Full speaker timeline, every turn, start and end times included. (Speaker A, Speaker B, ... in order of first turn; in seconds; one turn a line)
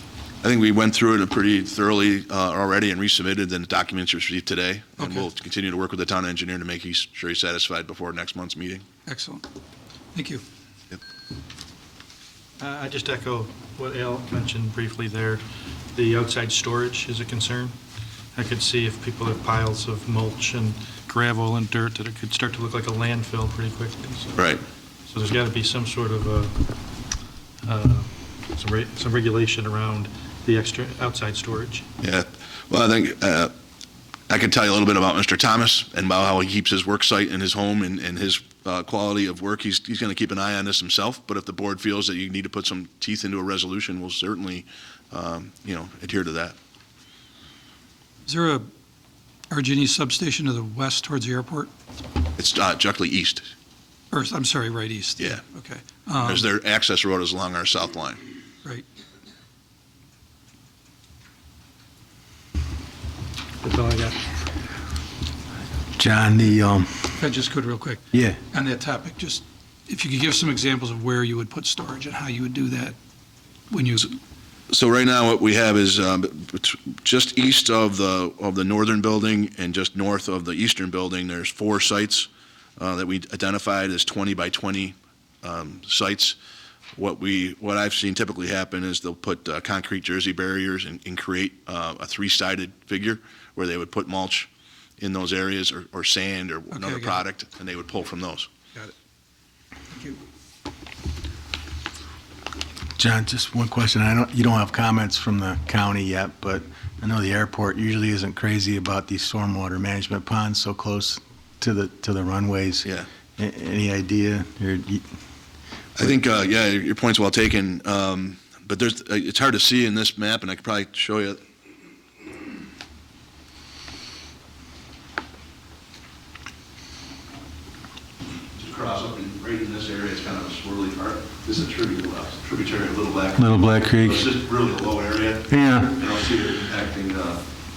Speaker A: 0.4-8.8
Speaker B: 5.0-5.3
Speaker B: 9.1-9.4
Speaker B: 10.1-10.4
Speaker C: 12.6-17.8
Speaker C: 18.4-24.5
Speaker A: 24.4-24.6
Speaker C: 25.1-26.6
Speaker C: 27.6-31.8
Speaker A: 32.0-33.5
Speaker A: 34.3-46.6
Speaker B: 48.3-48.7
Speaker B: 49.5-51.7
Speaker A: 52.4-53.5
Speaker B: 54.1-56.5
Speaker A: 56.2-58.2
Speaker C: 63.6-64.2
Speaker D: 66.0-67.2
Speaker B: 67.2-73.0
Speaker D: 68.1-68.4
Speaker B: 73.7-74.1
Speaker A: 74.7-86.4
Speaker A: 87.0-98.5
Speaker B: 96.7-97.2
Speaker B: 99.9-100.2
Speaker D: 103.0-115.0
Speaker A: 116.0-121.4
Speaker A: 128.6-137.4
Speaker D: 133.4-134.3
Speaker D: 135.5-135.9